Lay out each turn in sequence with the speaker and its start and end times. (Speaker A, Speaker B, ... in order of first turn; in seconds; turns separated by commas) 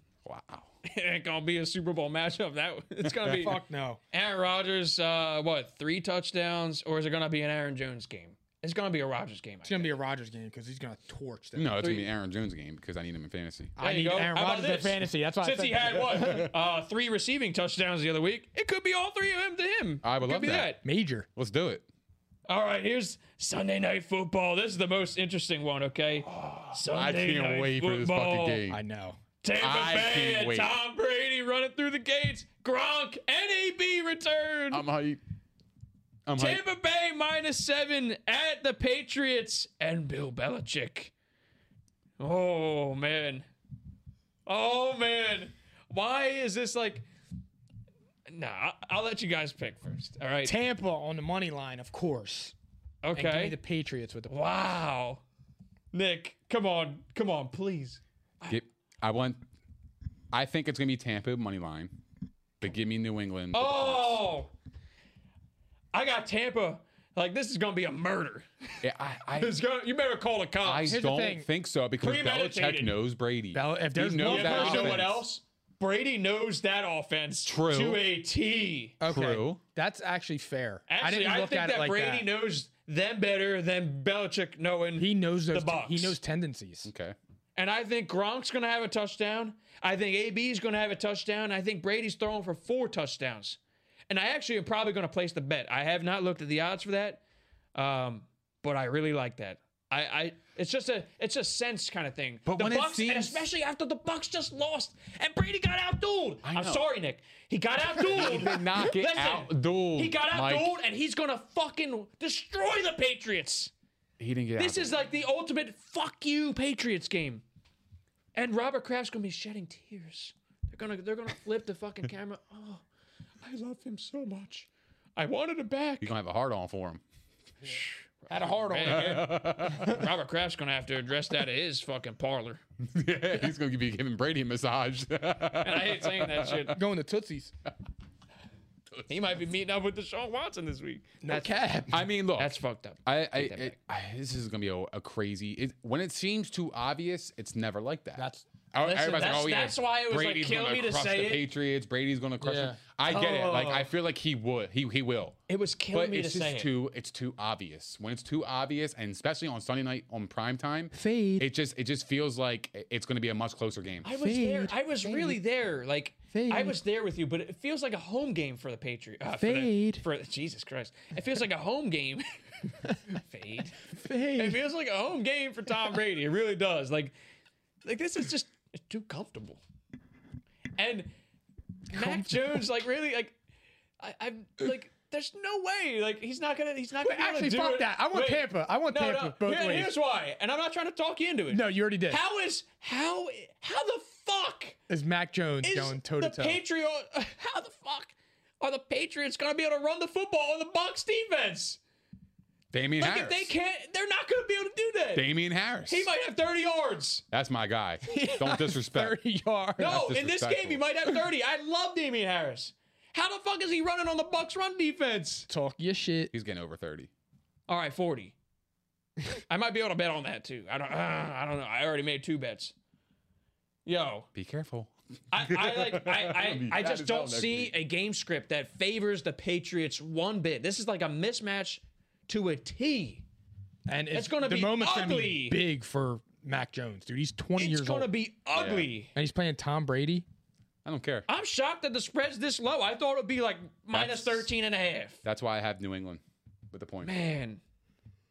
Speaker A: 0.2-0.7, Speaker B: 0.8-10.0, Speaker A: 3.0-3.5, Speaker C: 3.3-4.0, Speaker C: 9.7-11.9, Speaker A: 11.6-13.8, Speaker B: 11.8-12.1, Speaker C: 13.8-16.5, Speaker B: 13.8-20.8, Speaker A: 20.0-20.7, Speaker C: 20.8-21.3, Speaker A: 21.4-21.9, Speaker B: 22.5-28.6, Speaker A: 26.3-28.8, Speaker C: 28.7-29.2, Speaker B: 29.4-34.9, Speaker A: 29.6-30.7, Speaker A: 34.7-35.2, Speaker A: 36.3-36.6, Speaker B: 36.4-41.1, Speaker B: 42.2-43.5, Speaker B: 44.5-47.1, Speaker B: 48.3-50.5, Speaker C: 50.4-52.5, Speaker B: 53.0-53.6, Speaker C: 53.1-54.5, Speaker B: 54.3-55.2, Speaker B: 55.9-58.6, Speaker A: 58.5-59.5, Speaker A: 60.3-61.9, Speaker A: 62.6-64.2, Speaker B: 63.5-64.5, Speaker B: 65.9-68.8, Speaker A: 68.8-69.6, Speaker B: 69.4-71.0, Speaker A: 70.6-75.2, Speaker C: 70.8-71.5, Speaker B: 72.0-73.0, Speaker C: 73.5-75.2, Speaker B: 74.2-79.0, Speaker A: 77.5-78.0, Speaker C: 79.0-82.3, Speaker A: 79.0-79.6, Speaker B: 80.9-86.2, Speaker C: 85.0-86.9, Speaker A: 86.8-87.2, Speaker B: 87.6-93.6, Speaker B: 94.1-97.2, Speaker B: 97.8-113.7, Speaker A: 102.5-103.5, Speaker A: 106.5-106.9, Speaker A: 107.9-110.8, Speaker A: 114.2-115.1, Speaker B: 114.6-117.4, Speaker B: 118.3-122.8, Speaker B: 123.4-126.1, Speaker A: 126.0-127.0, Speaker B: 127.7-132.6, Speaker C: 128.3-129.4, Speaker A: 128.8-130.1, Speaker A: 132.9-136.7, Speaker B: 135.6-136.8, Speaker C: 136.7-137.5, Speaker B: 139.1-141.8, Speaker C: 141.2-142.1, Speaker A: 141.9-155.4, Speaker B: 142.4-143.8, Speaker C: 148.2-148.5, Speaker B: 148.8-151.4, Speaker C: 152.4-152.8, Speaker B: 153.1-153.9, Speaker B: 155.5-156.7, Speaker A: 155.9-164.1, Speaker C: 160.9-161.5, Speaker B: 164.0-172.2, Speaker C: 164.2-165.4, Speaker C: 166.3-166.8, Speaker C: 169.3-170.1, Speaker B: 172.8-177.1, Speaker C: 173.9-174.6, Speaker B: 177.8-179.6, Speaker B: 180.8-181.1, Speaker B: 181.9-183.4, Speaker C: 181.9-182.6, Speaker B: 184.0-194.8, Speaker C: 187.0-189.9, Speaker C: 191.5-192.2, Speaker C: 194.9-196.6, Speaker B: 195.6-201.8, Speaker A: 202.7-203.5, Speaker B: 203.0-205.3, Speaker A: 205.1-206.1, Speaker B: 205.9-207.2, Speaker A: 207.3-209.2, Speaker C: 208.1-210.0, Speaker B: 209.8-215.5, Speaker A: 209.8-211.1, Speaker C: 215.5-216.3, Speaker A: 216.3-217.1, Speaker B: 217.7-218.3, Speaker B: 219.5-222.7, Speaker B: 223.9-224.3, Speaker A: 224.3-227.7, Speaker B: 225.3-233.2, Speaker C: 233.9-238.1, Speaker B: 234.1-235.6, Speaker B: 237.6-239.1, Speaker A: 238.5-238.9, Speaker C: 239.2-240.3, Speaker A: 240.8-241.2, Speaker B: 241.3-245.2, Speaker A: 243.9-244.5, Speaker A: 245.2-247.2, Speaker B: 247.0-247.6